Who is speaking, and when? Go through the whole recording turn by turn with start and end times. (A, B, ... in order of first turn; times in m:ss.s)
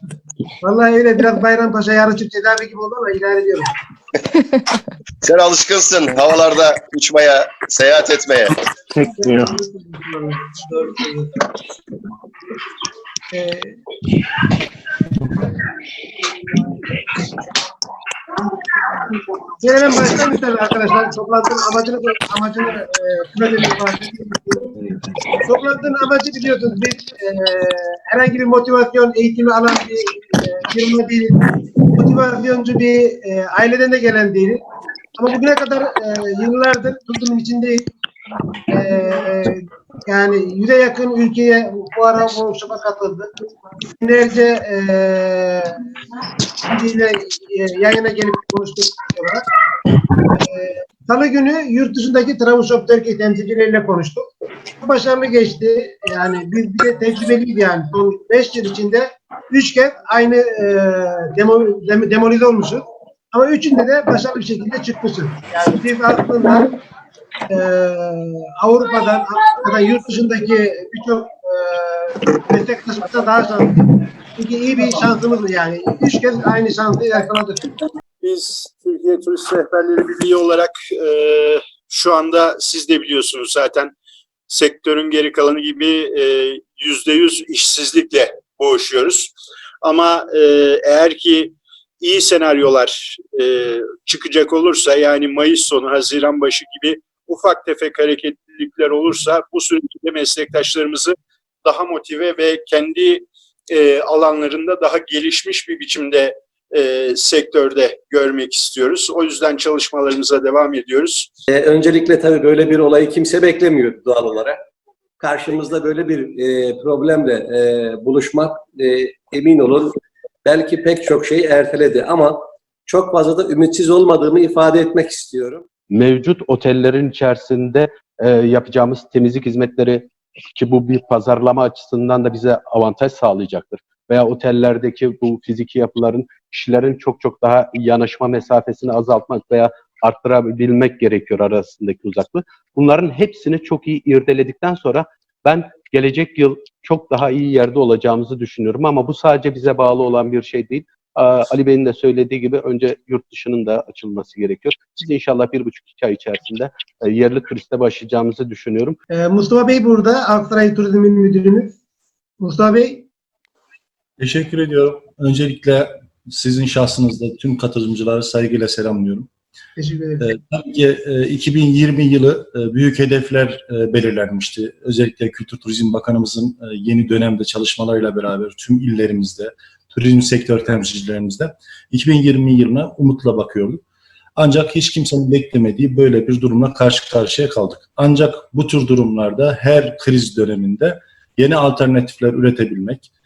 0:00.6-0:03.7 A
0:05.2-0:08.5 B
0:09.1-0:11.3 A
0:13.3-0:13.8 A
0:19.6-0:24.7 A
0:25.5-0:31.4 A
0:32.0-0:34.6 A
0:35.2-0:37.9 A
0:38.7-0:45.8 A
0:46.7-0:49.4 A
0:50.3-0:54.3 A
0:54.8-1:06.7 A
1:07.5-1:13.8 A
1:14.4-1:17.7 A
1:18.2-1:23.9 C
1:24.5-1:29.3 C
1:29.8-1:51.3 C
1:51.5-1:54.6 D
1:55.2-1:59.9 D
2:00.5-2:02.4 D
2:02.9-2:05.6 D
2:05.9-2:39.0 E
2:39.1-2:41.7 A
2:42.4-2:43.1 A
2:44.2-2:49.3 F
2:49.8-2:50.2 A
2:50.2-3:03.8 F
3:04.4-3:13.1 F